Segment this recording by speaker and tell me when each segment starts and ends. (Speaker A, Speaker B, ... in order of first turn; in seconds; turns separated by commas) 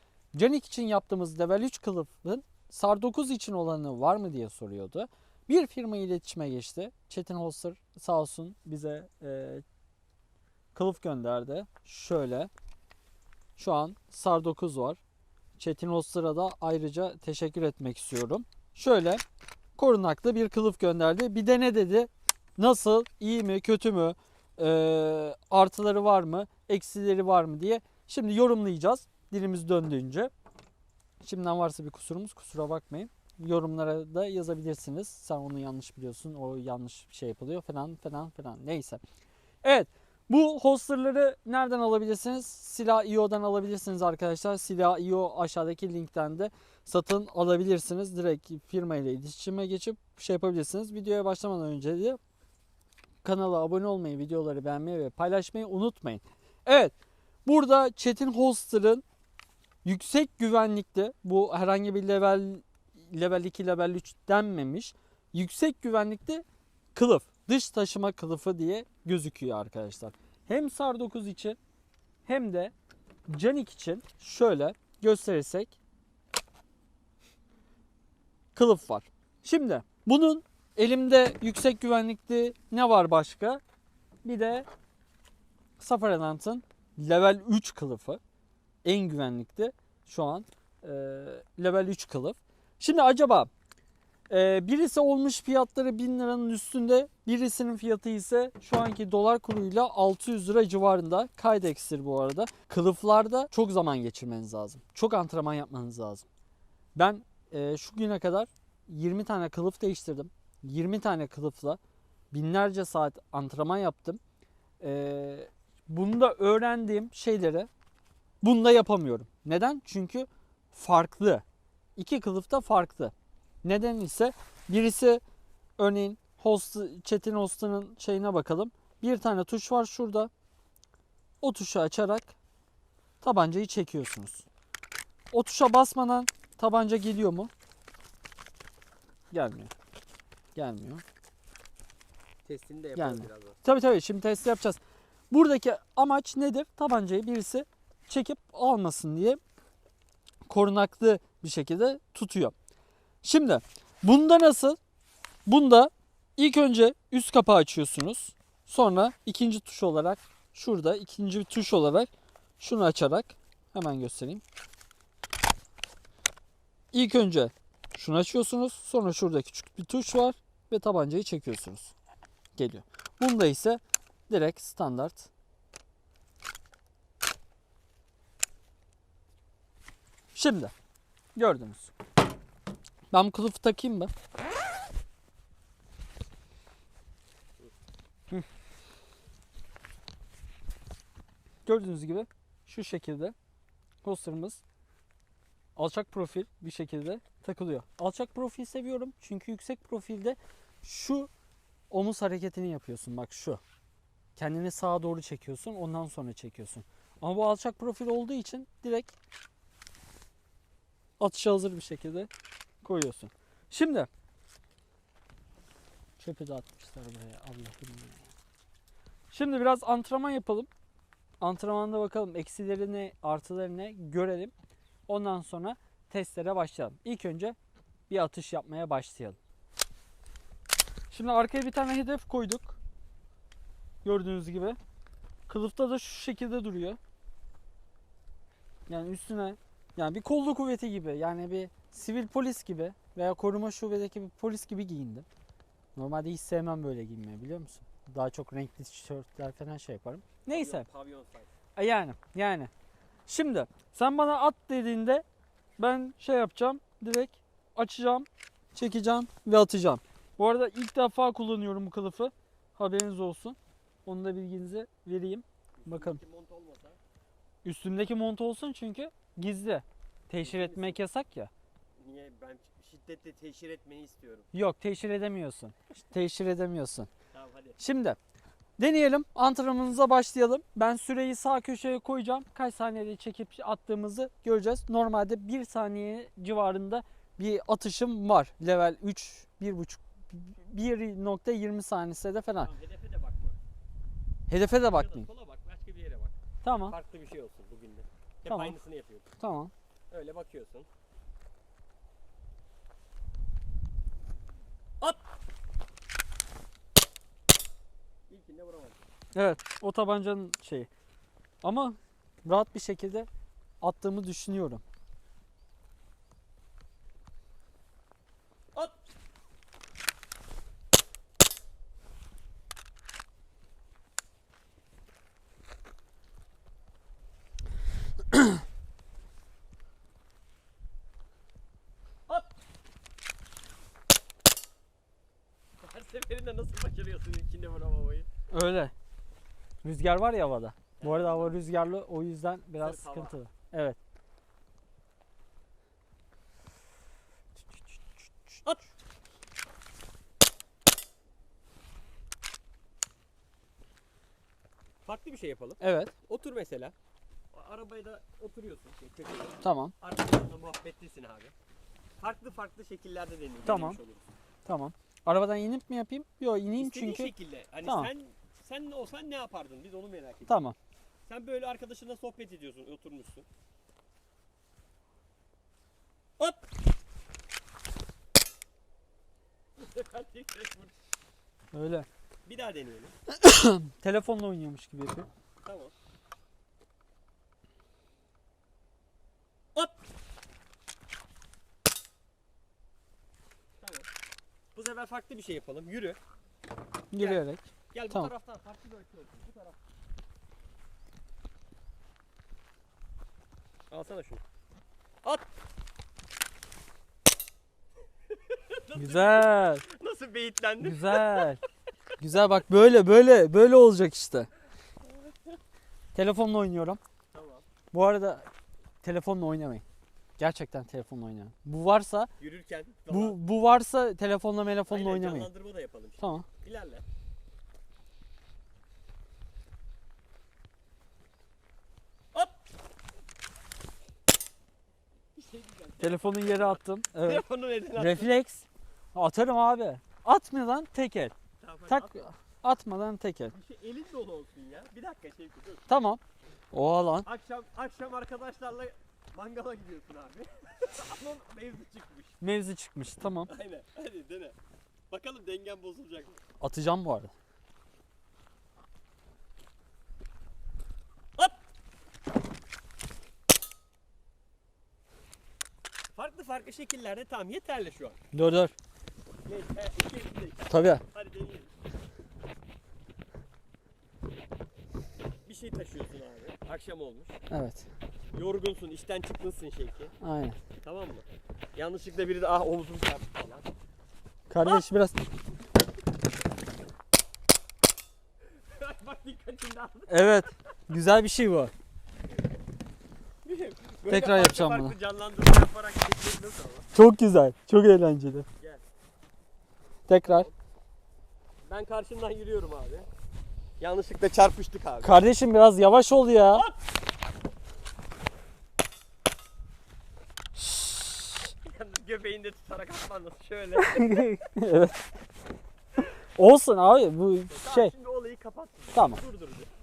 Speaker A: 0.3-9.6, Speaker A: 10.7-12.5, Speaker A: 13.6-15.0, Speaker A: 15.6-19.2, Speaker A: 19.8-30.3, Speaker A: 31.2-39.0, Speaker A: 39.6-52.2, Speaker A: 53.2-56.9, Speaker A: 57.5-59.0, Speaker A: 59.8-71.6, Speaker A: 72.2-72.7, Speaker A: 73.3-75.8, Speaker A: 78.5-83.6, Speaker A: 84.2-84.7, Speaker A: 85.8-88.2, Speaker A: 88.8-93.5, Speaker A: 94.3-106.2, Speaker A: 107.0-111.8, Speaker A: 112.3-114.2, Speaker A: 114.8-117.7, Speaker A: 118.4-121.4, Speaker A: 122.0-123.1, Speaker A: 123.6-125.2, Speaker A: 125.8-130.3, Speaker A: 131.4-132.3, Speaker A: 133.2-134.5, Speaker A: 135.3-137.5, Speaker A: 139.3-139.7, Speaker A: 140.6-141.0, Speaker B: 142.4-143.6, Speaker A: 142.9-144.8, Speaker A: 145.3-149.4, Speaker A: 150.5-152.5, Speaker A: 153.2-154.8, Speaker A: 155.4-164.4, Speaker A: 166.9-171.9, Speaker A: 172.6-175.3, Speaker A: 180.3-180.7, Speaker A: 181.3-181.9, Speaker A: 183.1-184.1, Speaker A: 191.7-193.3, Speaker A: 194.0-194.6, Speaker A: 195.8-201.3, Speaker A: 201.9-203.6, Speaker A: 204.3-209.1, Speaker A: 211.2-212.3, Speaker A: 212.8-214.1, Speaker A: 216.2-218.2, Speaker A: 219.3-220.7, Speaker A: 221.4-224.5, Speaker A: 225.1-227.6, Speaker A: 228.1-229.4, Speaker A: 231.1-232.8, Speaker A: 234.0-234.8, Speaker A: 235.5-237.0, Speaker A: 238.9-245.2, Speaker A: 245.9-250.8, Speaker B: 250.5-251.5, Speaker A: 251.8-252.7, Speaker A: 253.3-255.2, Speaker A: 255.8-266.2, Speaker B: 265.8-267.0, Speaker A: 267.6-271.5, Speaker B: 270.4-271.0, Speaker B: 271.9-274.5, Speaker A: 274.5-277.1, Speaker B: 277.3-277.8, Speaker A: 277.8-278.2, Speaker A: 278.8-292.7, Speaker B: 292.6-293.6, Speaker A: 294.5-295.3, Speaker B: 294.8-299.3, Speaker A: 296.6-296.9, Speaker A: 298.5-298.7, Speaker A: 299.4-299.7, Speaker B: 300.1-300.9, Speaker B: 308.3-309.0, Speaker A: 309.3-310.9, Speaker A: 311.6-313.3, Speaker A: 313.8-314.8, Speaker B: 318.7-319.0, Speaker B: 335.8-338.3, Speaker A: 338.5-338.9, Speaker A: 339.8-344.0, Speaker B: 341.0-341.6, Speaker B: 342.8-343.4, Speaker B: 348.6-348.9, Speaker B: 355.0-356.9, Speaker A: 355.8-356.1, Speaker B: 357.5-361.5, Speaker A: 359.6-359.9, Speaker B: 362.2-364.3, Speaker A: 363.6-364.0, Speaker A: 364.6-367.3, Speaker B: 366.7-370.6, Speaker A: 367.8-368.1, Speaker A: 370.5-370.7, Speaker B: 371.3-373.5, Speaker B: 379.8-380.9, Speaker A: 381.7-382.1, Speaker B: 382.4-383.1, Speaker A: 383.3-385.3, Speaker B: 385.6-385.9, Speaker B: 389.7-390.0, Speaker B: 393.8-394.1, Speaker B: 394.7-396.2, Speaker A: 397.1-398.3, Speaker B: 397.2-399.8, Speaker B: 403.9-404.4, Speaker B: 408.3-411.6, Speaker A: 408.9-409.8, Speaker A: 410.8-411.6, Speaker A: 412.2-414.5, Speaker A: 416.1-417.0, Speaker B: 417.3-417.6, Speaker A: 417.9-418.5, Speaker A: 419.0-419.8, Speaker A: 420.4-422.3, Speaker B: 422.4-423.4, Speaker A: 423.1-425.5, Speaker B: 424.9-427.0, Speaker A: 426.2-426.4, Speaker B: 435.3-438.3, Speaker A: 436.0-441.3, Speaker B: 441.6-442.3, Speaker A: 441.9-443.5, Speaker B: 443.5-445.9, Speaker A: 445.9-446.2, Speaker A: 446.7-447.3, Speaker B: 447.2-452.4, Speaker A: 452.4-453.5, Speaker B: 453.3-454.6, Speaker B: 455.1-456.4, Speaker A: 456.6-457.3, Speaker B: 466.1-468.2, Speaker A: 468.3-468.7, Speaker B: 469.4-471.7, Speaker A: 470.7-471.0, Speaker B: 475.4-477.4, Speaker A: 477.5-477.9, Speaker B: 478.3-480.1, Speaker A: 480.2-480.6, Speaker B: 480.8-483.7, Speaker A: 484.5-485.2, Speaker B: 488.5-490.6, Speaker A: 490.1-491.7, Speaker B: 493.4-496.9, Speaker A: 494.1-494.9, Speaker A: 496.9-498.4, Speaker A: 500.1-500.5, Speaker B: 500.1-500.5, Speaker B: 501.6-503.1, Speaker B: 503.8-505.2, Speaker A: 505.0-506.6, Speaker A: 510.6-511.5, Speaker B: 511.6-514.3, Speaker A: 513.8-515.0, Speaker A: 516.3-517.9, Speaker B: 517.5-519.7, Speaker A: 518.9-519.2